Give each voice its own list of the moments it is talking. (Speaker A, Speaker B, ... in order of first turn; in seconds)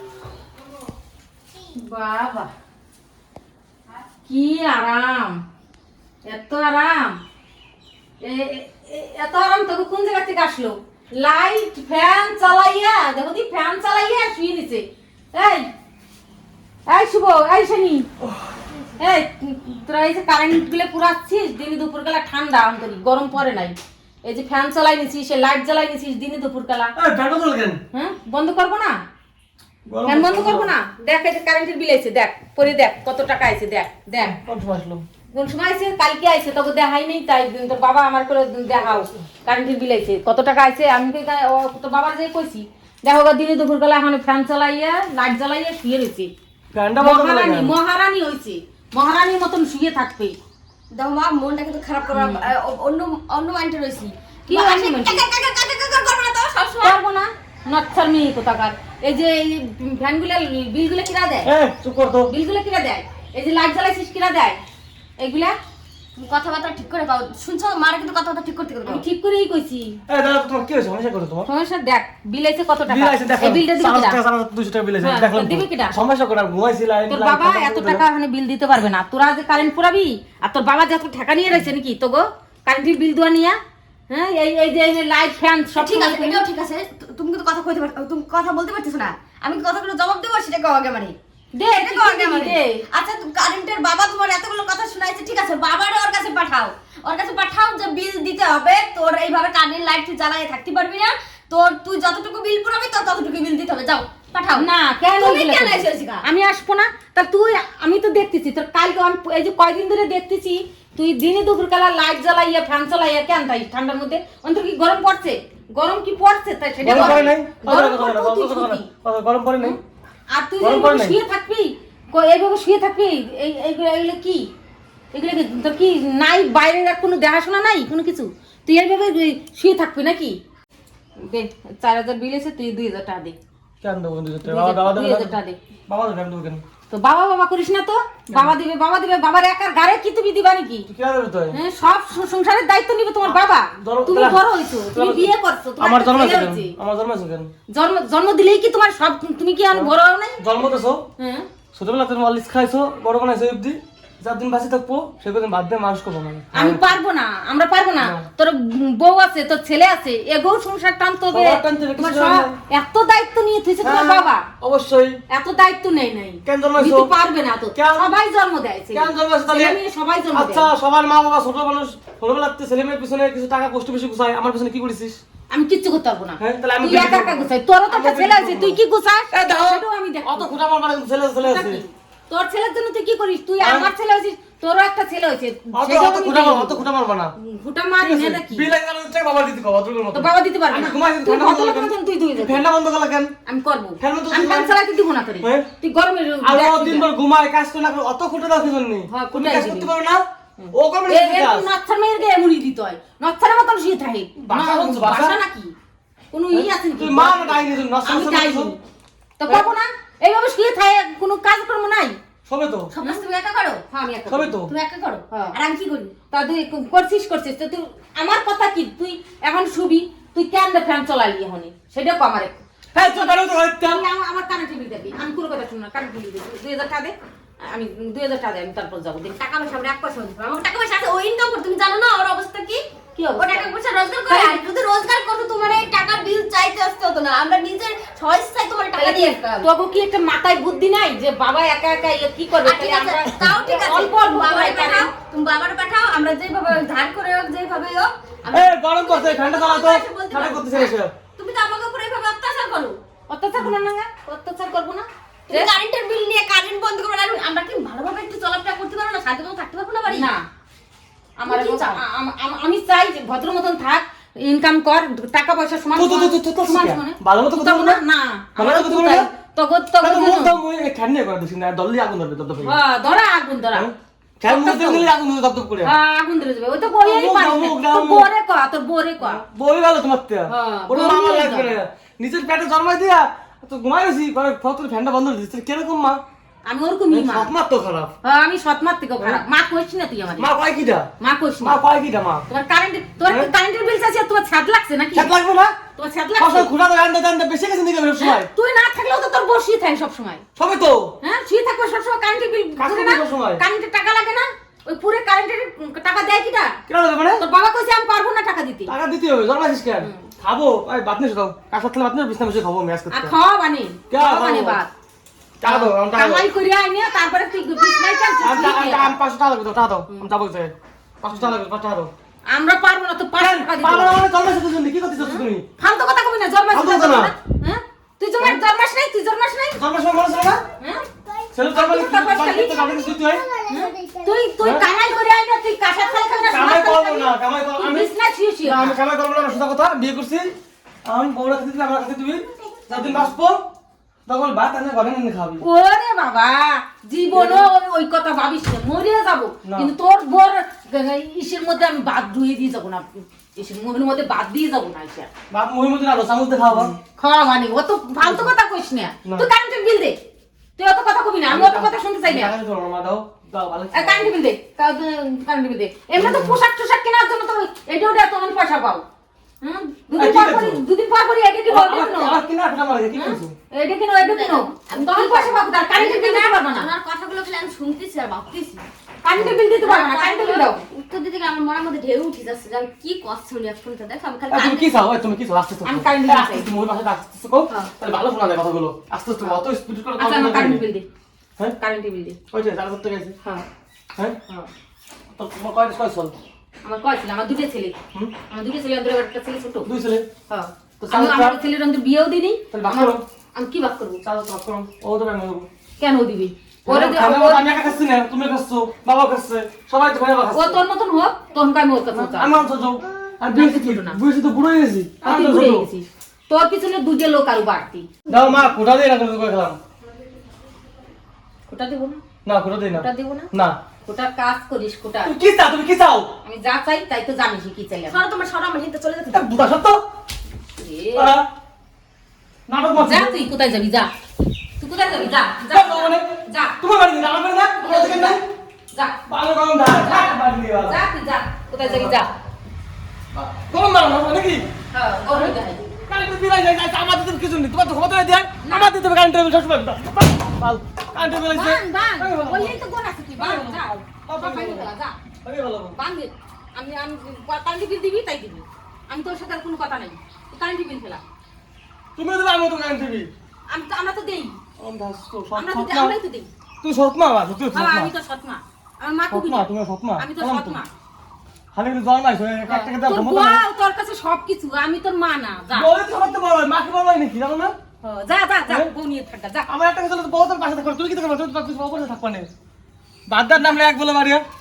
Speaker A: 1.7-2.5, 4.2-5.4, 6.2-7.2, 8.2-15.7, 16.9-18.1, 19.0-26.9, 27.9-29.0, 30.1-34.4, 35.3-46.3, 47.0-50.4, 52.1-52.5, 54.5-55.2, 56.8-61.5, 62.3-64.6, 65.2-65.5, 68.9-70.0, 71.5-74.2, 75.0-76.0, 77.1-83.6, 84.1-86.5, 91.5-92.8, 104.5-118.9, 120.3-124.5, 125.1-130.4, 131.2-133.4, 134.4-135.6, 136.9-140.9, 141.5-146.8, 147.7-150.4, 151.2-151.5, 156.5-164.4, 165.3-170.7, 175.5-180.5, 181.4-188.7, 190.1-192.6, 193.4-197.1, 199.1-199.9, 200.6-205.7, 206.3-208.8, 209.4-212.2, 213.9-214.7, 215.3-215.6, 216.3-229.4, 233.1-233.7, 234.3-234.6, 238.9-245.1, 253.3-255.7, 260.1-260.4, 261.4-270.6, 272.6-273.9, 274.4-275.1, 275.8-279.4, 280.5-281.8, 286.6-287.5, 288.2-290.5, 291.2-291.8, 292.5-295.3, 296.0-296.7, 298.2-300.4, 301.2-306.8, 307.4-308.9, 310.0-310.3, 313.1-314.9, 315.6-319.2, 322.5-324.2, 325.2-329.8, 331.7-333.0, 333.7-338.9, 345.6-355.3, 357.0-360.2, 360.8-362.5, 363.9-369.0, 369.6-372.4, 373.1-376.9, 379.2-380.8, 385.9-386.7, 390.2-391.1, 391.8-392.4, 396.8-397.9, 398.5-399.9, 400.5-404.2, 406.0-407.7, 410.5-412.6, 413.5-414.2, 415.2-418.1, 421.7-422.2, 423.0-423.5, 424.0-425.3, 426.4-428.2, 430.8-431.4, 433.0-434.1, 434.8-436.8, 437.8-438.4, 438.9-439.2, 439.9-442.3, 444.9-445.8, 448.6-448.9, 451.4-455.1, 455.9-461.2, 463.7-464.6, 465.5-466.5, 467.7-470.9, 472.7-475.9, 478.0-479.7
Speaker B: 18.2-18.6, 26.9-27.8, 29.9-30.7, 34.2-35.0, 46.7-47.8, 61.4-62.3, 70.1-71.5, 72.9-78.0, 116.8-119.8, 120.6-121.2, 133.8-135.4, 135.9-136.6, 138.3-138.6, 140.9-141.6, 143.2-147.5, 149.7-151.0, 151.7-156.8, 158.0-158.2, 161.3-162.6, 163.8-165.2, 166.4-167.1, 167.8-168.1, 168.9-169.8, 170.3-175.2, 176.4-178.8, 179.3-181.8, 183.6-183.9, 185.7-187.3, 188.0-193.3, 194.0-194.8, 195.4-195.7, 196.4-201.7, 204.4-205.4, 206.5-208.8, 212.4-212.9, 214.3-214.7, 222.9-224.0, 248.5-251.1, 265.9-268.0, 268.6-269.3, 270.0-272.8, 273.7-275.9, 276.9-278.3, 279.2-286.2, 287.1-288.1, 290.4-291.1, 291.6-292.4, 293.2-293.5, 295.1-295.8, 296.4-298.5, 300.6-301.1, 302.8-303.6, 306.9-307.4, 308.9-313.3, 314.1-314.8, 315.6-316.5, 318.4-322.1, 323.4-325.6, 326.7-327.3, 329.8-330.6, 331.5-333.4, 336.5-338.1, 338.6-340.5, 341.0-343.6, 344.3-345.6, 347.3-347.7, 349.6-349.9, 355.5-357.0, 358.2-358.5, 361.5-364.3, 366.1-366.6, 370.1-370.8, 371.7-373.5, 384.5-390.8, 392.5-393.4, 394.1-394.4, 395.4-396.3, 399.8-400.3, 401.0-401.6, 402.7-403.2, 404.2-405.7, 406.9-410.8, 412.1-415.9, 418.3-419.8, 422.4-423.8, 425.2-426.3, 429.3-430.0, 431.1-431.4, 432.7-433.3, 435.6-438.4, 439.3-441.0, 441.8-442.2, 443.3-444.7, 445.3-452.8, 453.4-454.9, 455.4-456.0, 462.1-463.3, 464.8-466.1, 466.8-468.1, 469.3-470.8, 471.7-473.6, 475.7-477.8, 479.7-482.5, 483.3-484.4
Speaker C: 50.9-57.0, 66.2-69.0, 85.8-91.2, 91.7-106.2, 212.9-213.8, 214.7-216.1, 229.4-232.9, 233.4-239.7, 242.6-253.0, 255.5-260.3, 261.4-262.0, 333.7-334.3, 374.2-378.8, 379.7-385.1, 428.1-429.7